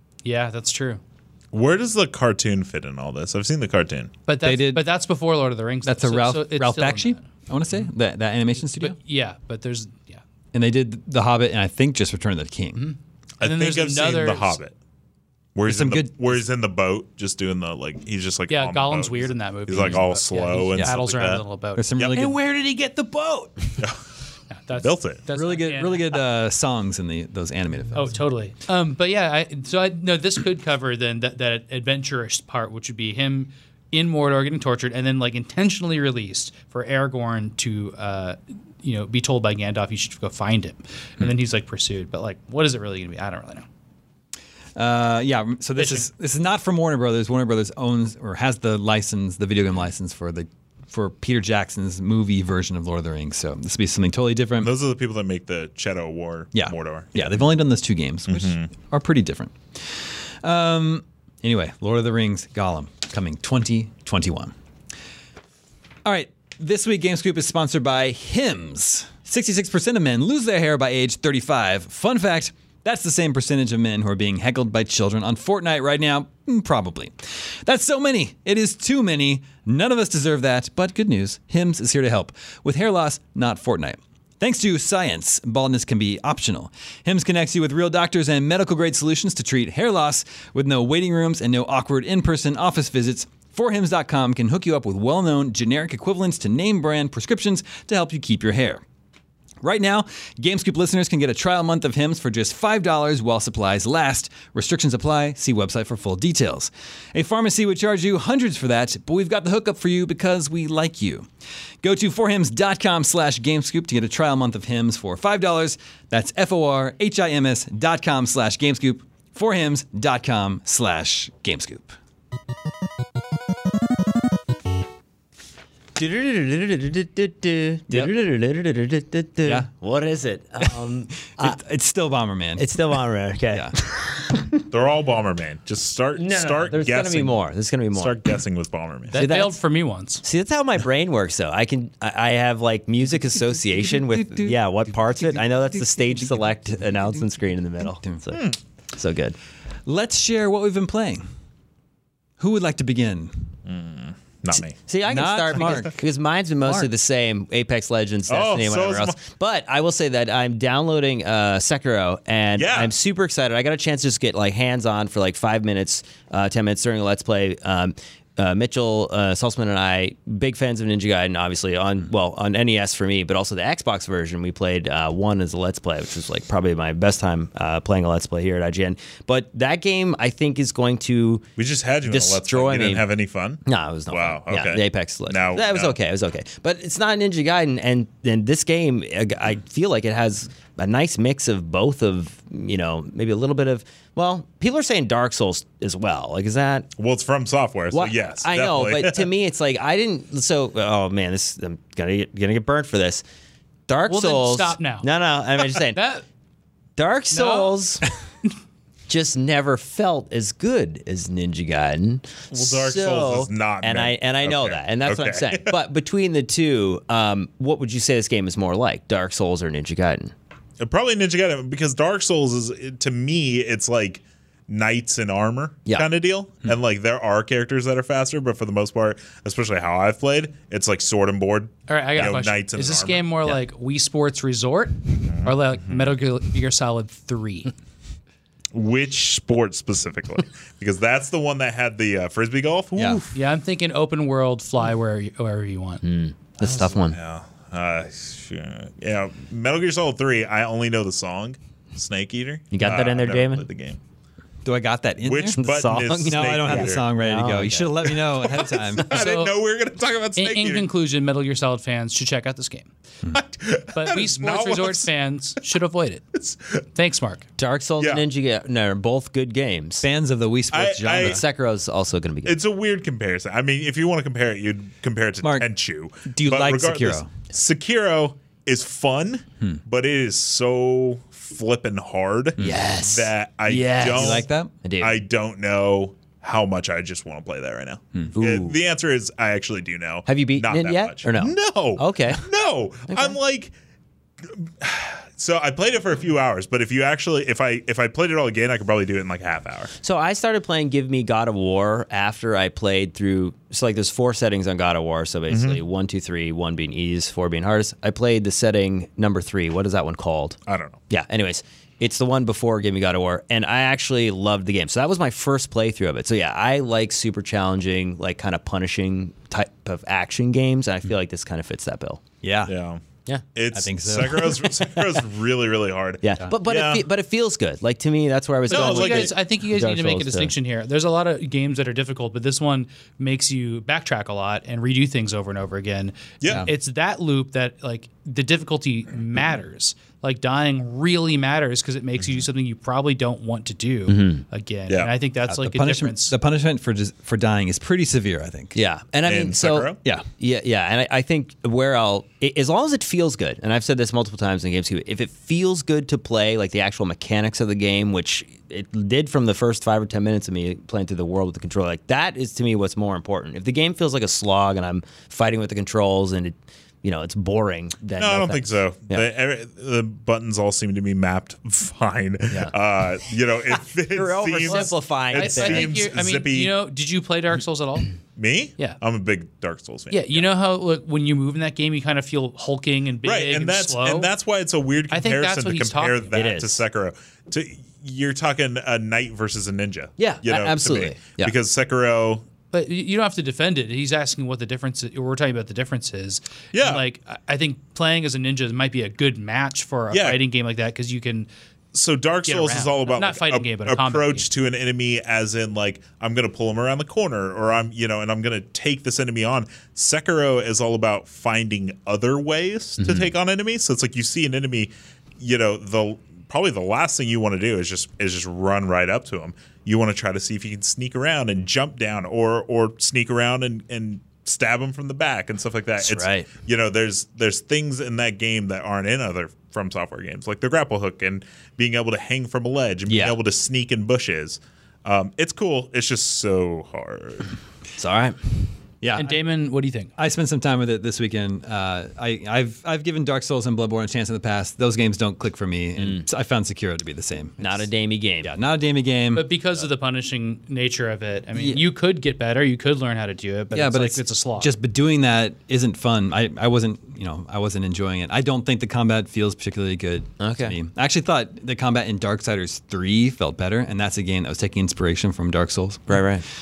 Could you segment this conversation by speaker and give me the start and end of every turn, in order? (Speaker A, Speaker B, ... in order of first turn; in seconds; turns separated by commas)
Speaker A: 0.2-1.0, Speaker B: 1.5-4.1, Speaker A: 4.3-7.2, Speaker C: 4.4-4.8, Speaker C: 5.8-8.9, Speaker A: 8.8-10.2, Speaker C: 10.5-12.9, Speaker A: 12.8-14.6, Speaker B: 13.4-14.7, Speaker B: 15.5-21.4, Speaker C: 15.7-16.4, Speaker A: 18.5-23.8, Speaker C: 21.7-22.4, Speaker A: 24.6-26.2, Speaker B: 24.7-25.2, Speaker C: 25.3-28.1, Speaker A: 27.9-43.6, Speaker C: 44.8-54.7, Speaker A: 45.8-46.0, Speaker B: 54.6-57.4, Speaker C: 56.5-64.5, Speaker B: 58.3-58.7, Speaker C: 66.0-98.8, Speaker C: 99.6-111.3, Speaker C: 111.8-122.0, Speaker D: 125.9-131.6, Speaker C: 131.3-132.8, Speaker D: 132.6-134.6, Speaker B: 134.7-137.4, Speaker D: 136.2-138.2, Speaker B: 137.9-139.3, Speaker A: 139.1-140.2, Speaker D: 139.1-139.6, Speaker D: 140.2-149.3, Speaker C: 143.3-147.2, Speaker C: 148.0-148.3, Speaker C: 149.8-151.3, Speaker C: 152.4-153.4, Speaker B: 153.6-154.8, Speaker D: 154.8-181.5, Speaker C: 155.1-156.1, Speaker C: 156.6-156.9, Speaker B: 158.3-159.2, Speaker B: 162.6-162.9, Speaker B: 181.6-185.9, Speaker D: 182.0-183.1, Speaker D: 183.6-196.9, Speaker B: 197.0-199.3, Speaker D: 197.9-203.2, Speaker D: 203.9-206.0, Speaker A: 204.1-205.1, Speaker A: 205.7-206.2, Speaker D: 207.0-208.0, Speaker A: 207.3-207.8, Speaker D: 209.1-220.3, Speaker B: 212.5-215.7, Speaker B: 220.8-233.2, Speaker A: 231.9-237.7, Speaker B: 235.3-236.1, Speaker B: 238.7-243.4, Speaker C: 242.9-243.2, Speaker A: 243.3-246.0, Speaker D: 246.0-247.2, Speaker B: 246.6-254.0, Speaker D: 252.7-253.7, Speaker C: 254.6-259.2, Speaker B: 255.2-257.0, Speaker D: 255.5-258.2, Speaker B: 258.4-260.9, Speaker A: 259.0-259.5, Speaker A: 260.4-262.9, Speaker B: 263.3-265.1, Speaker A: 263.9-266.3, Speaker B: 266.3-266.8, Speaker A: 266.9-267.4, Speaker D: 267.6-270.0, Speaker B: 268.0-268.2, Speaker C: 270.0-271.4, Speaker B: 270.7-271.4, Speaker D: 271.1-272.6, Speaker B: 272.4-284.4, Speaker C: 275.4-275.7, Speaker C: 276.2-277.3, Speaker D: 282.6-285.2, Speaker C: 284.0-284.7, Speaker B: 285.0-293.7, Speaker D: 288.3-288.8, Speaker D: 290.3-292.4, Speaker D: 293.1-293.4, Speaker B: 294.4-299.9, Speaker D: 300.0-310.6, Speaker B: 305.5-305.8, Speaker B: 310.7-311.0, Speaker D: 311.1-322.2, Speaker C: 322.4-322.7, Speaker B: 322.6-323.0, Speaker B: 323.5-327.0, Speaker C: 323.7-324.7, Speaker D: 326.2-330.5, Speaker A: 328.7-346.3, Speaker B: 328.7-329.3, Speaker B: 336.4-336.7, Speaker D: 344.1-344.4, Speaker C: 345.5-348.8, Speaker D: 348.7-369.2, Speaker B: 349.2-350.0, Speaker B: 368.2-376.7, Speaker D: 374.1-375.9, Speaker A: 374.7-378.1, Speaker B: 378.4-380.5, Speaker A: 380.1-384.3, Speaker B: 383.2-392.4, Speaker A: 385.1-386.3, Speaker D: 386.3-386.8, Speaker D: 390.2-391.5, Speaker A: 392.7-401.5, Speaker B: 396.7-397.0, Speaker B: 400.1-400.4, Speaker B: 401.9-437.5, Speaker A: 402.4-404.5, Speaker D: 413.0-413.3, Speaker D: 426.0-426.5, Speaker D: 433.1-433.4, Speaker D: 438.0-438.7, Speaker C: 439.0-439.4, Speaker A: 439.1-440.1, Speaker C: 440.2-447.9, Speaker D: 446.0-446.2, Speaker D: 447.6-448.5, Speaker C: 448.4-449.5, Speaker A: 449.3-454.7, Speaker C: 451.5-451.8, Speaker C: 453.7-466.3, Speaker D: 460.4-460.8, Speaker D: 466.1-466.4